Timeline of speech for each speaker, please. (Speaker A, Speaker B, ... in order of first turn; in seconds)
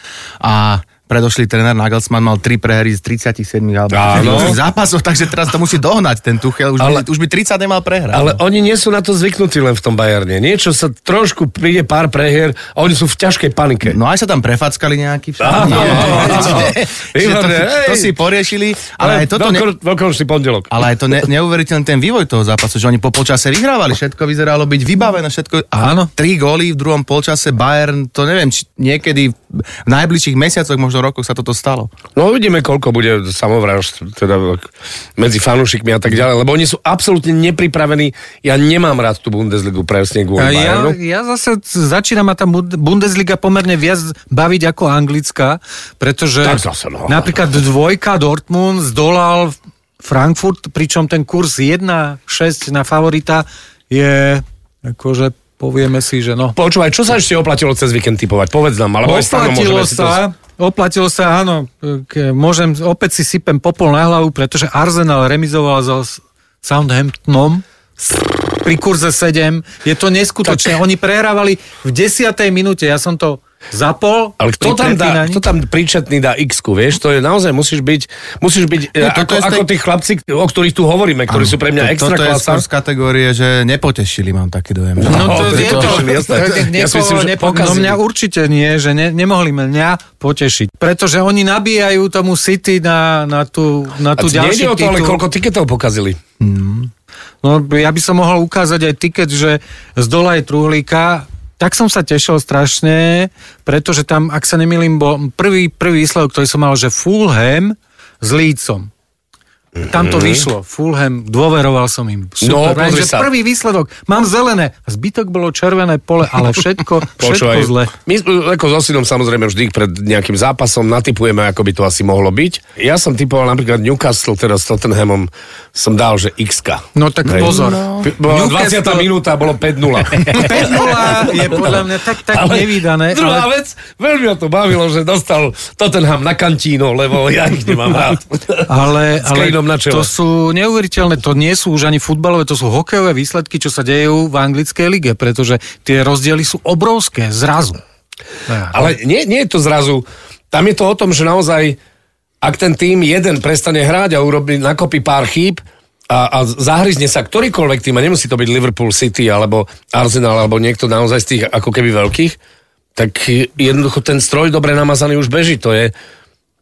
Speaker A: 0.4-8.4, 13.8-19.7, 20.7-31.9, 79.0-79.7, 81.3-86.1, 96.4-96.9, 127.2-128.1
Speaker B: 3.9-4.6, 8.1-14.0, 15.4-18.1, 19.0-20.7, 32.1-41.0, 46.4-47.3, 56.5-60.2, 74.4-82.6, 85.0-88.0, 94.2-96.2, 109.8-110.4, 112.4-113.3, 117.2-138.7, 139.2-140.1, 148.7-151.8, 152.4-162.4, 162.9-165.9
Speaker C: 15.7-16.6, 25.8-26.1, 40.4-56.6, 59.0-67.6, 68.6-75.4, 85.1-95.2, 97.4-108.9, 109.9-117.9, 126.9-129.1, 130.3-133.5, 138.7-147.8, 148.5-148.9